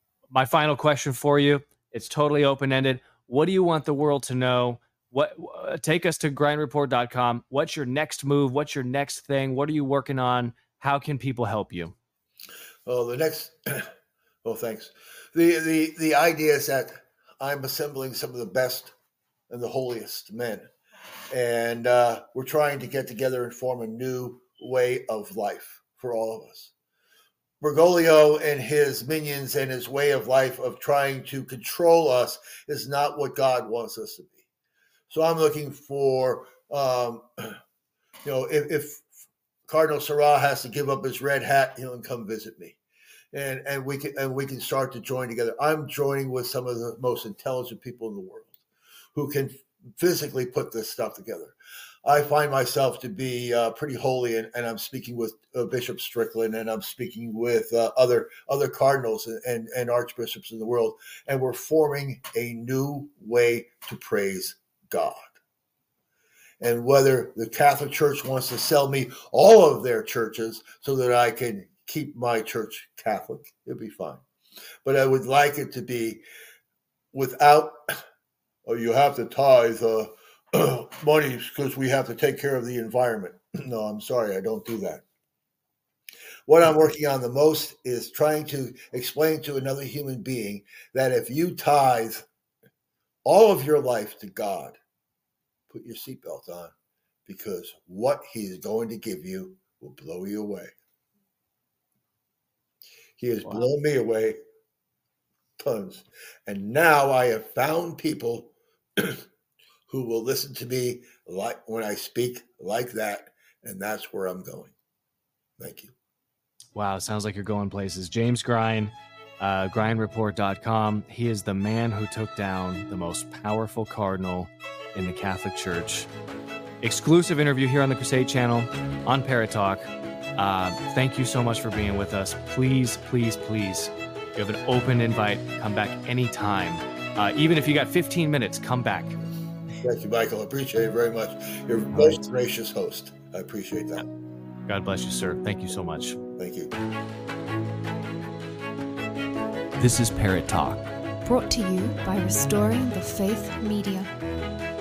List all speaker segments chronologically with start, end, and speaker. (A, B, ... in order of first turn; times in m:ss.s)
0:00.3-0:11.9 A
0:12.8-0:13.9 B
0:14.4-0:18.9 B
0:19.5-0:20.7 B
0:21.3-0:26.7 B
0:27.6-0:34.4 B
0:35.1-0:37.6 B
0:38.2-0:39.1 B
0:39.7-0:42.8 B
0:43.3-0:48.5 B
0:49.1-1:05.3 B
1:06.6-1:14.2 B
1:14.8-1:16.2 B
1:17.1-1:17.8 B
1:18.6-1:25.0 B
1:26.5-1:32.2 B
1:33.2-1:34.8 B
1:35.7-1:36.7 B
1:37.2-1:40.7 B
1:43.2-1:44.4 B
1:45.6-1:49.2 B
1:49.9-1:54.7 B
1:55.6-1:55.9 B
1:56.7-2:06.1 A
2:06.8-2:19.2 A
2:19.8-2:24.1 B
2:21.9-2:22.2 A
2:24.7-2:26.2 A
2:26.4-2:26.7 B
2:29.8-2:30.8 A
2:31.2-2:34.1 C